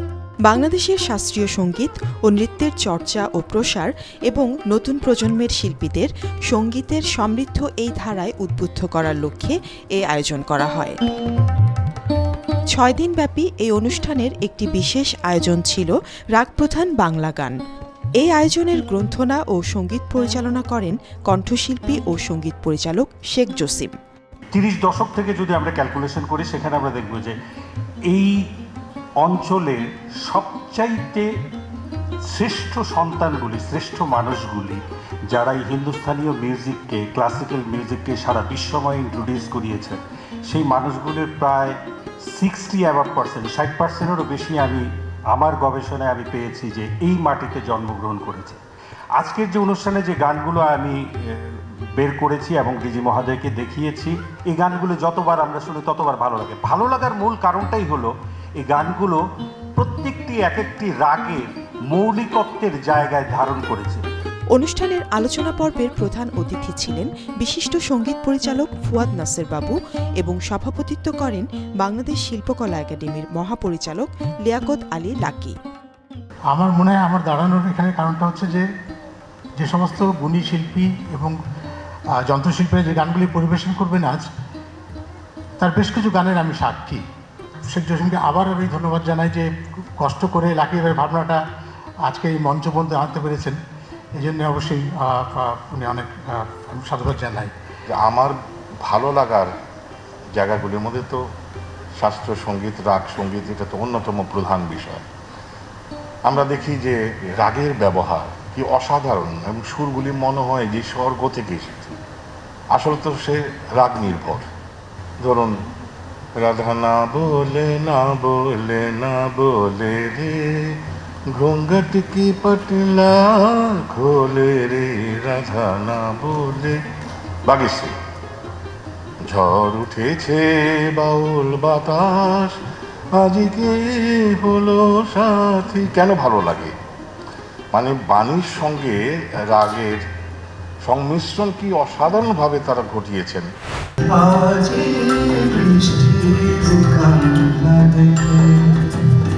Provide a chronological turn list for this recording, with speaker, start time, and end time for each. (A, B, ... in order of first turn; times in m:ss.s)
0:00.4-0:11.0 A
0:12.7-0:17.6 A
0:18.2-0:23.9 A
0:24.5-0:27.4 B
0:28.1-0:28.4 B
0:29.2-0:31.2 B
0:32.3-0:41.8 B
0:42.3-0:48.6 B
0:49.1-0:59.2 B
0:59.8-1:04.0 B
1:04.5-1:15.6 A
1:16.5-1:18.6 C
1:19.6-1:21.3 C
1:22.2-1:24.3 C
1:25.6-1:27.0 C
1:27.7-1:31.4 C
1:32.0-1:33.6 C
1:34.2-1:37.5 C
1:37.9-1:39.5 D
1:40.4-1:41.2 D
1:42.0-1:45.0 D
1:46.3-1:52.0 D
1:52.7-1:54.4 D
1:55.2-1:55.5 D
1:56.4-2:00.4 D
2:01.4-2:06.8 D
2:07.5-2:07.9 D
2:09.2-2:12.6 D
2:13.2-2:16.7 D
2:17.7-2:20.0 D
2:20.9-2:23.5 D
2:24.1-2:28.8 E